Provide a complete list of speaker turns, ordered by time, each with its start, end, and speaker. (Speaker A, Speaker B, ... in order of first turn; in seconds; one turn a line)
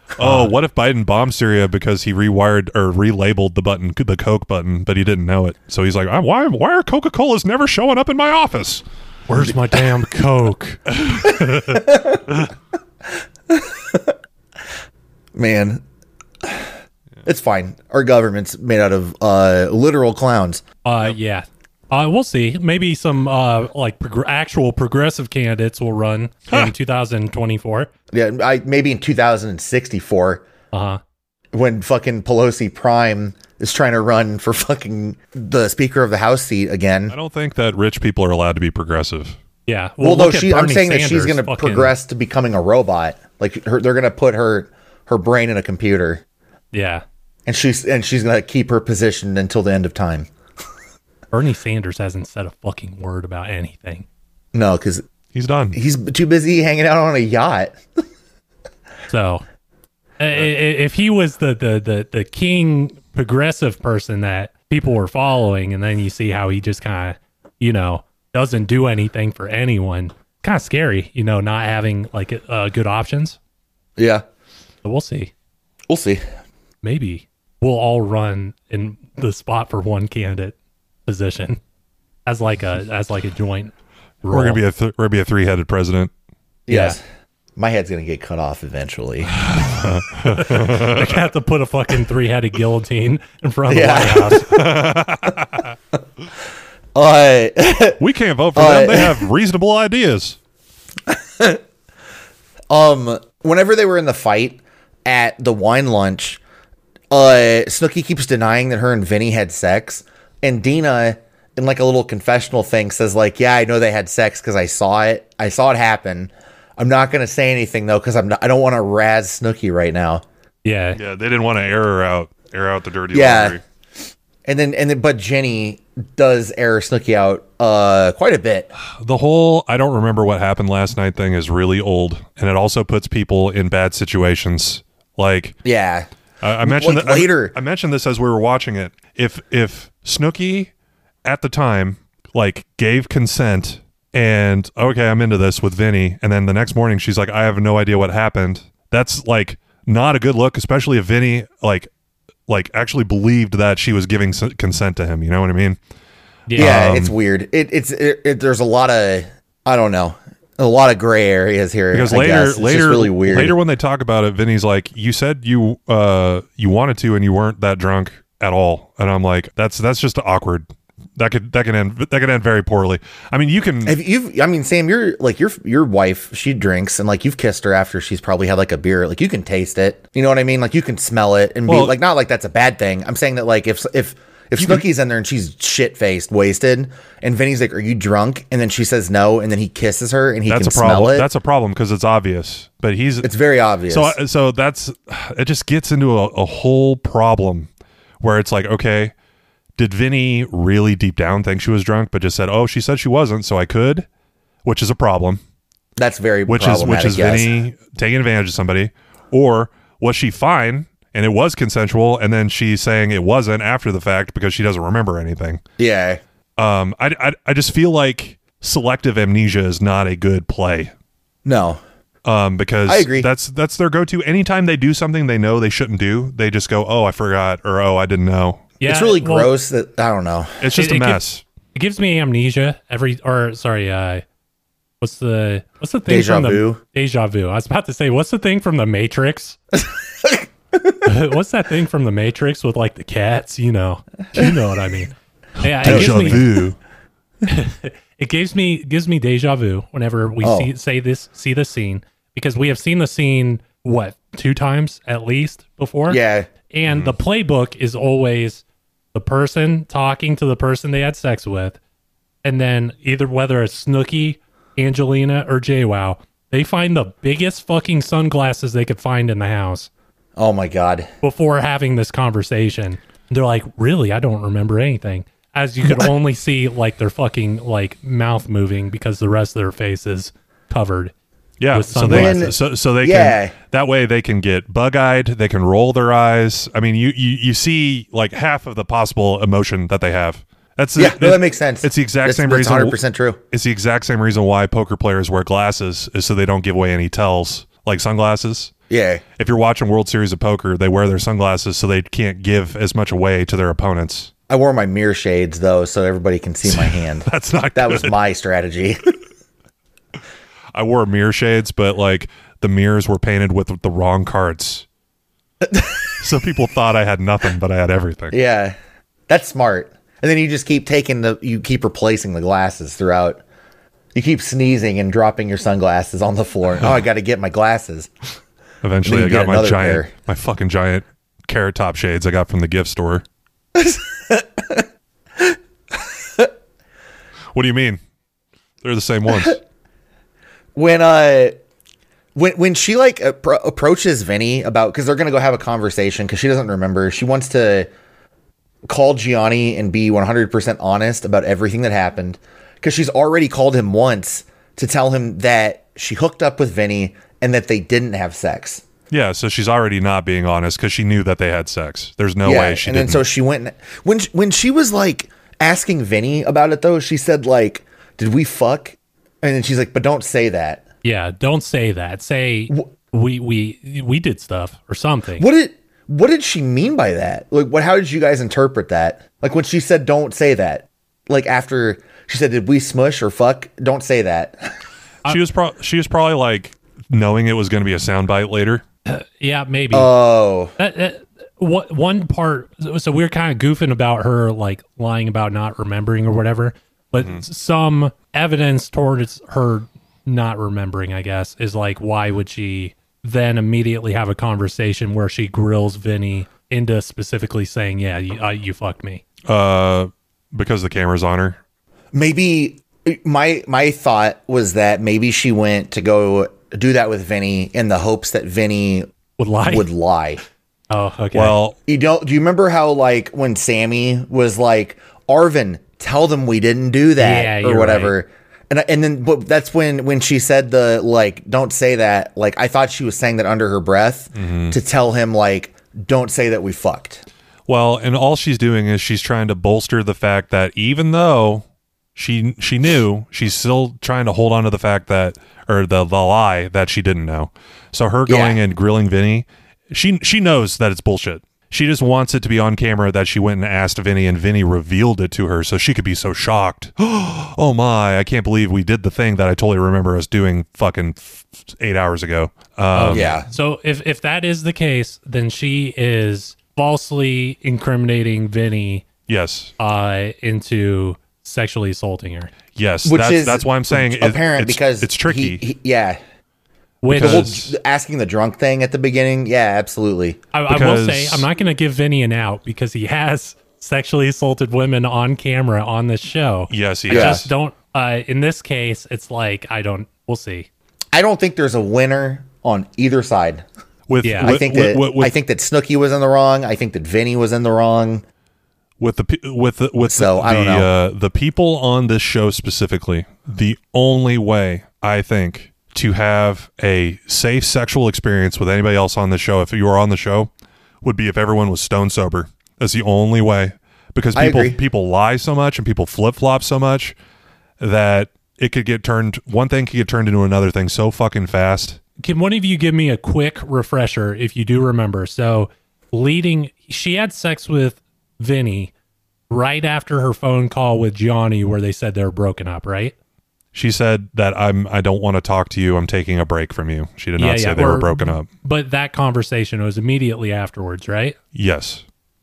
Speaker A: 0.2-8.8
Speaker B: 0.2-0.5
Speaker B: 9.3-11.8
Speaker A: 11.0-11.8
Speaker C: 11.7-12.2
Speaker C: 13.5-14.2
Speaker C: 15.3-15.8
Speaker C: 16.4-16.7
Speaker C: 17.2-20.6
Speaker B: 20.8-27.9
Speaker C: 28.1-30.4
Speaker B: 30.7-31.0
Speaker C: 31.5-37.1
Speaker A: 37.1-39.4
Speaker B: 39.7-41.9
Speaker C: 40.0-46.2
Speaker B: 46.7-47.0
Speaker C: 47.5-50.3
Speaker B: 51.3-54.0
Speaker C: 54.5-55.0
Speaker A: 55.3-55.8
Speaker C: 55.7-57.8
Speaker B: 59.1-59.4
Speaker B: 60.2-73.4
Speaker C: 74.0-74.2
Speaker B: 74.8-75.3
Speaker C: 75.9-76.2
Speaker B: 76.8-80.5
Speaker B: 81.0-81.6
Speaker B: 82.2-84.6
Speaker A: 84.3-86.1
Speaker C: 86.7-87.0
Speaker B: 86.7-87.0
Speaker C: 87.5-89.3
Speaker A: 89.4-91.2
Speaker B: 90.2-94.6
Speaker C: 93.7-94.6
Speaker A: 94.5-95.7
Speaker C: 96.9-98.0
Speaker A: 98.0-100.4
Speaker C: 98.5-99.3
Speaker C: 101.1-101.6
Speaker C: 102.7-106.4
Speaker C: 107.1-120.2
Speaker B: 120.6-121.0
Speaker A: 120.9-123.6
Speaker C: 123.1-123.6
Speaker C: 124.5-128.7
Speaker A: 128.9-135.6
Speaker C: 135.6-136.1
Speaker A: 136.4-140.7
Speaker C: 136.6-137.5
Speaker A: 141.2-151.9
Speaker A: 152.5-155.8
Speaker B: 156.5-156.7
Speaker A: 156.5-157.1
Speaker C: 156.6-163.6
Speaker A: 161.9-174.0
Speaker C: 173.8-191.3
Speaker A: 181.7-181.9
Speaker A: 184.6-184.8
Speaker A: 190.5-193.3
Speaker C: 193.2-194.2
Speaker A: 193.9-197.7
Speaker A: 198.2-199.1
Speaker A: 199.8-204.1
Speaker A: 204.6-205.4
Speaker C: 206.0-207.5
Speaker A: 206.5-215.6
Speaker C: 215.8-216.2
Speaker A: 216.6-220.9
Speaker C: 221.4-221.8
Speaker A: 222.2-228.7
Speaker C: 222.8-223.3
Speaker B: 228.8-229.5
Speaker C: 228.8-230.6
Speaker A: 230.6-231.4
Speaker B: 230.7-231.2
Speaker B: 231.7-234.2
Speaker B: 235.0-239.6
Speaker C: 236.1-236.8
Speaker B: 241.0-246.4
Speaker A: 245.8-246.8
Speaker C: 245.8-246.5
Speaker B: 247.4-256.2
Speaker C: 250.4-250.7
Speaker C: 256.1-256.5
Speaker B: 256.7-258.6
Speaker A: 256.9-257.1
Speaker B: 259.1-261.8
Speaker B: 262.4-269.9
Speaker C: 270.4-271.1
Speaker B: 271.2-281.1
Speaker A: 281.6-293.0
Speaker B: 281.7-282.5
Speaker C: 282.1-283.5
Speaker C: 290.9-293.4
Speaker A: 293.5-298.7
Speaker C: 298.9-299.2
Speaker A: 299.4-304.3
Speaker C: 304.5-309.1
Speaker A: 306.6-308.2
Speaker A: 310.7-314.8
Speaker C: 315.6-316.1
Speaker A: 316.2-318.4
Speaker C: 318.3-318.8
Speaker C: 319.3-323.4
Speaker C: 324.1-328.1
Speaker A: 328.8-333.2
Speaker C: 329.0-330.1
Speaker C: 333.7-334.9
Speaker C: 335.4-336.5
Speaker A: 337.5-338.0
Speaker A: 338.8-339.6
Speaker C: 339.3-339.6
Speaker C: 340.7-341.6
Speaker C: 342.3-347.9
Speaker C: 348.9-358.8
Speaker A: 359.1-363.2
Speaker C: 362.4-370.8
Speaker B: 371.0-375.4
Speaker C: 375.4-384.7
Speaker A: 385.3-388.8
Speaker B: 389.1-390.1
Speaker C: 389.9-390.7
Speaker B: 390.8-409.2
Speaker A: 409.4-411.6
Speaker C: 412.1-419.1
Speaker B: 419.4-419.9
Speaker C: 419.6-420.4
Speaker B: 420.9-421.6
Speaker A: 421.3-421.8
Speaker C: 421.9-437.2
Speaker B: 427.2-428.1
Speaker A: 434.3-434.8
Speaker A: 437.7-441.6
Speaker A: 442.1-463.4
Speaker C: 448.3-448.6
Speaker B: 462.9-469.1
Speaker C: 463.1-463.5
Speaker A: 469.3-469.7
Speaker B: 469.8-472.5
Speaker A: 472.7-475.6
Speaker C: 473.0-476.2
Speaker B: 477.0-477.5
Speaker A: 477.1-477.7
Speaker C: 477.1-480.4
Speaker B: 480.5-490.7
Speaker A: 480.7-481.4
Speaker A: 486.7-487.4
Speaker C: 487.1-487.4
Speaker C: 491.1-493.6
Speaker A: 494.1-495.3
Speaker B: 494.2-494.6
Speaker C: 494.4-498.2
Speaker A: 499.0-510.5
Speaker C: 500.0-500.9
Speaker A: 511.0-517.1
Speaker C: 514.3-514.8
Speaker A: 517.8-522.0
Speaker B: 522.2-528.9
Speaker B: 529.5-533.1
Speaker A: 533.7-538.5
Speaker B: 537.4-541.4
Speaker A: 541.5-542.0